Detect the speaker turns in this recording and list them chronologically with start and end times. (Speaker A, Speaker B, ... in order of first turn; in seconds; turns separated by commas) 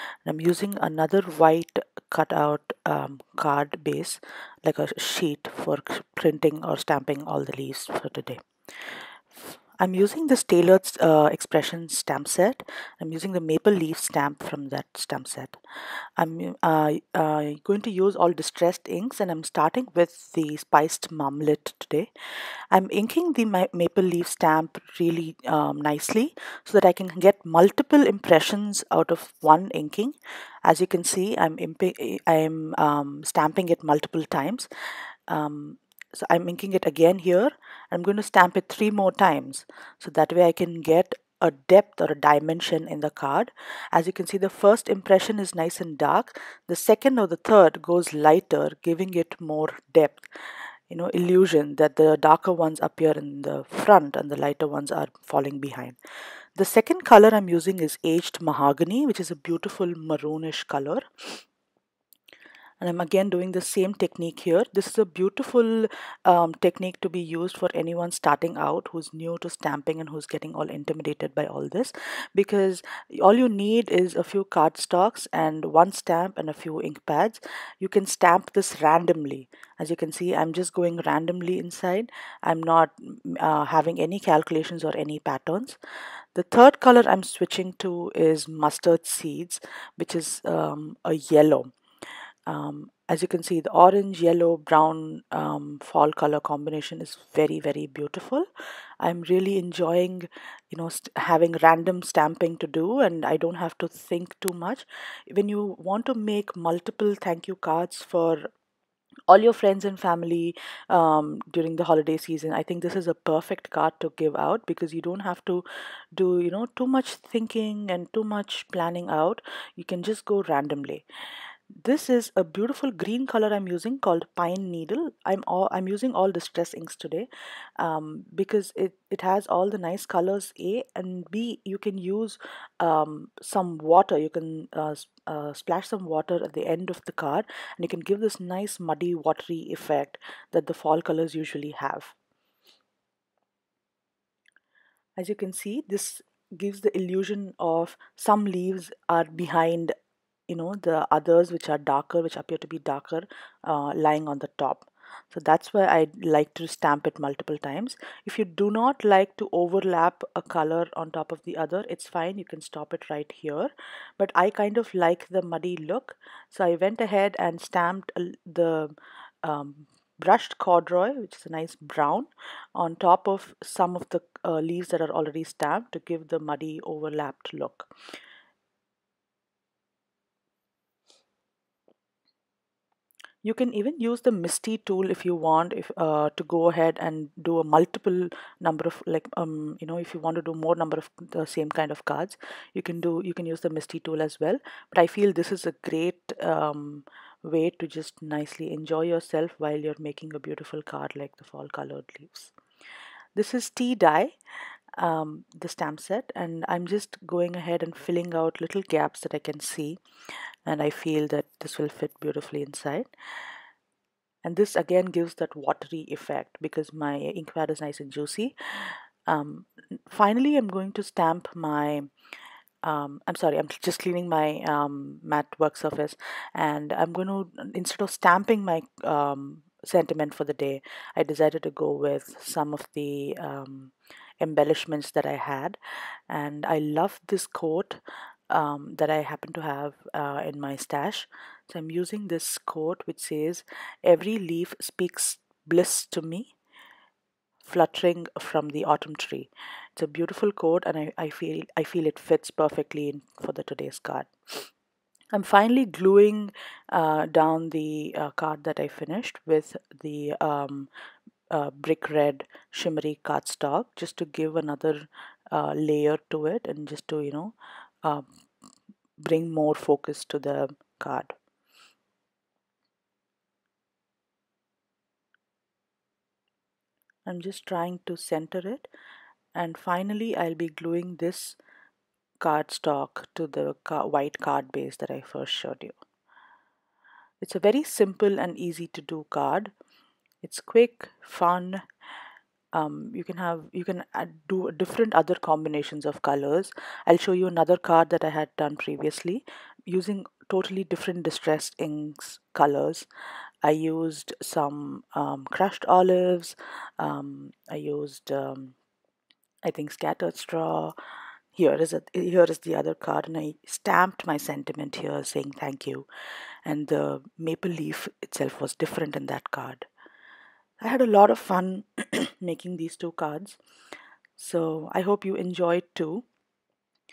Speaker A: 0.3-8.4, Speaker A: 9.4-15.6, Speaker A: 16.2-22.1, Speaker A: 22.7-34.7, Speaker A: 35.3-50.3, Speaker A: 50.9-56.0, Speaker A: 56.6-61.4, Speaker A: 62.8-85.8, Speaker A: 86.3-91.7, Speaker A: 92.5-98.5, Speaker A: 99.0-108.5, Speaker A: 109.3-121.0, Speaker A: 121.7-142.2, Speaker A: 145.2-149.9, Speaker A: 150.5-177.9, Speaker A: 183.4-202.5, Speaker A: 203.3-204.3, Speaker A: 205.0-210.0, Speaker A: 210.7-213.1, Speaker A: 214.4-222.1, Speaker A: 222.8-235.8, Speaker A: 236.3-246.5, Speaker A: 247.7-254.7, Speaker A: 255.3-260.9, Speaker A: 261.5-268.2, Speaker A: 269.2-271.3, Speaker A: 277.2-278.9, Speaker A: 279.6-281.6, Speaker A: 282.4-286.0, Speaker A: 287.4-289.7, Speaker A: 290.4-291.8, Speaker A: 292.7-303.1, Speaker A: 303.6-308.8, Speaker A: 309.6-310.9, Speaker A: 311.5-316.1, Speaker A: 316.6-319.9, Speaker A: 320.8-323.6, Speaker A: 324.4-326.2